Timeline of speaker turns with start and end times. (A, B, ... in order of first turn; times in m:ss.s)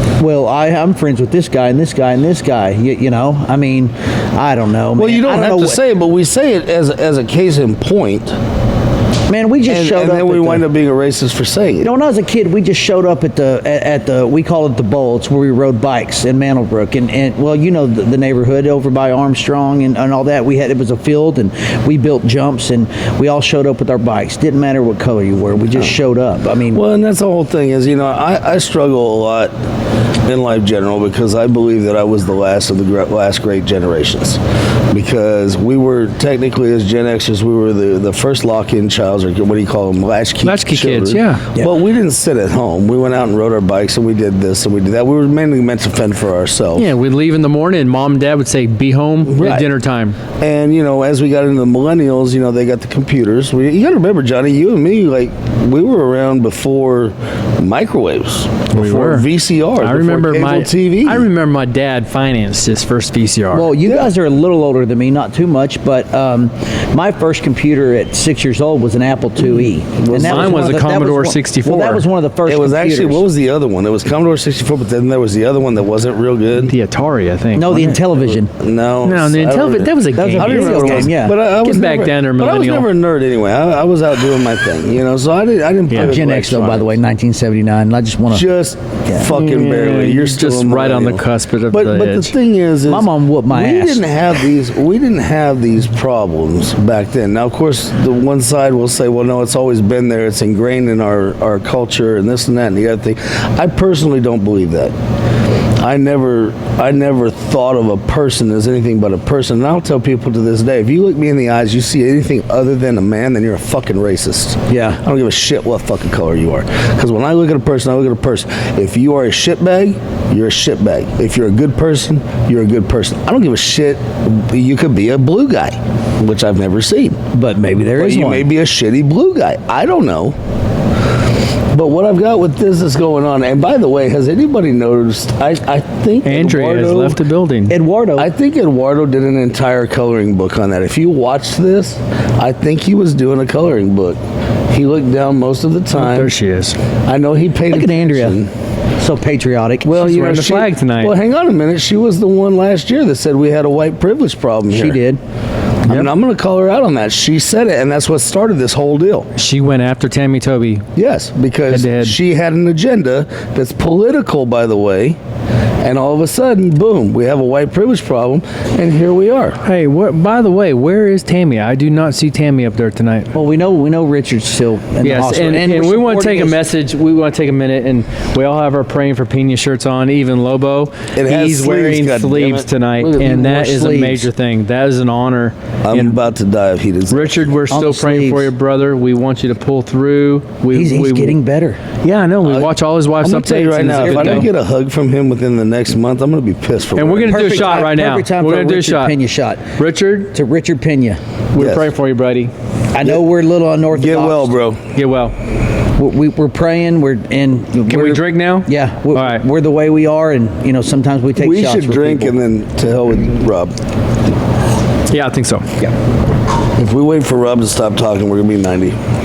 0:00.2-0:05.8 A
0:05.0-0:08.3 B
0:09.3-0:10.7 A
0:09.7-0:11.9 B
0:11.8-0:26.8 A
0:26.7-0:29.5 B
0:30.2-0:34.4 B
0:34.9-0:46.9 B
0:40.4-0:41.4 C
0:46.7-0:50.2 C
0:49.2-0:49.7 B
0:50.4-1:01.3 B
0:58.7-0:59.3 C
0:59.8-1:03.7 C
1:03.5-1:13.2 A
1:03.8-1:04.1 B
1:10.0-1:11.0 B
1:10.2-1:12.0 C
1:12.4-1:16.7 B
1:16.6-1:18.0 C
1:17.5-1:18.5 A
1:18.1-1:27.0 B
1:19.0-1:22.9 C
1:20.1-1:21.4 A
1:25.9-1:28.4 A
1:28.3-1:44.9 B
1:29.3-1:32.3 C
1:32.9-1:34.0 A
1:45.8-2:07.2 B
1:54.7-1:55.0 A
2:07.3-2:08.5 A
2:07.9-2:10.4 B
2:11.7-2:17.2 B
2:16.2-2:17.8 C
2:17.7-2:18.3 A
2:18.2-2:24.2 B
2:24.7-2:26.3 B
2:25.9-2:26.8 C
2:27.0-2:28.5 B
2:27.7-2:28.4 A
2:29.0-2:29.9 A
2:29.8-2:31.1 C
2:29.8-2:35.0 B
2:34.7-2:35.2 A
2:35.8-2:39.3 B
2:39.4-2:40.8 C
2:41.0-2:45.2 B
2:41.7-2:42.2 C
2:45.8-2:49.6 B
2:49.6-2:53.3 C
2:53.3-2:56.6 A
2:55.0-3:06.2 C
3:01.1-3:02.7 B
3:03.0-3:04.3 A
3:05.8-3:07.5 B
3:07.1-3:11.4 C
3:07.7-3:08.5 A
3:10.7-3:11.8 A
3:12.0-3:14.5 C
3:12.4-3:17.8 B
3:13.9-3:14.4 A
3:17.0-3:19.2 C
3:17.3-3:19.6 A
3:19.8-3:20.3 C
3:20.3-3:21.2 A
3:21.5-3:22.5 C
3:21.6-3:21.9 B
3:22.9-3:24.5 A
3:23.9-3:24.8 B
3:24.9-3:25.3 C
3:26.0-3:32.3 A
3:27.9-3:29.4 C
3:31.4-3:33.7 B
3:35.1-3:35.7 C
3:36.7-3:39.0 B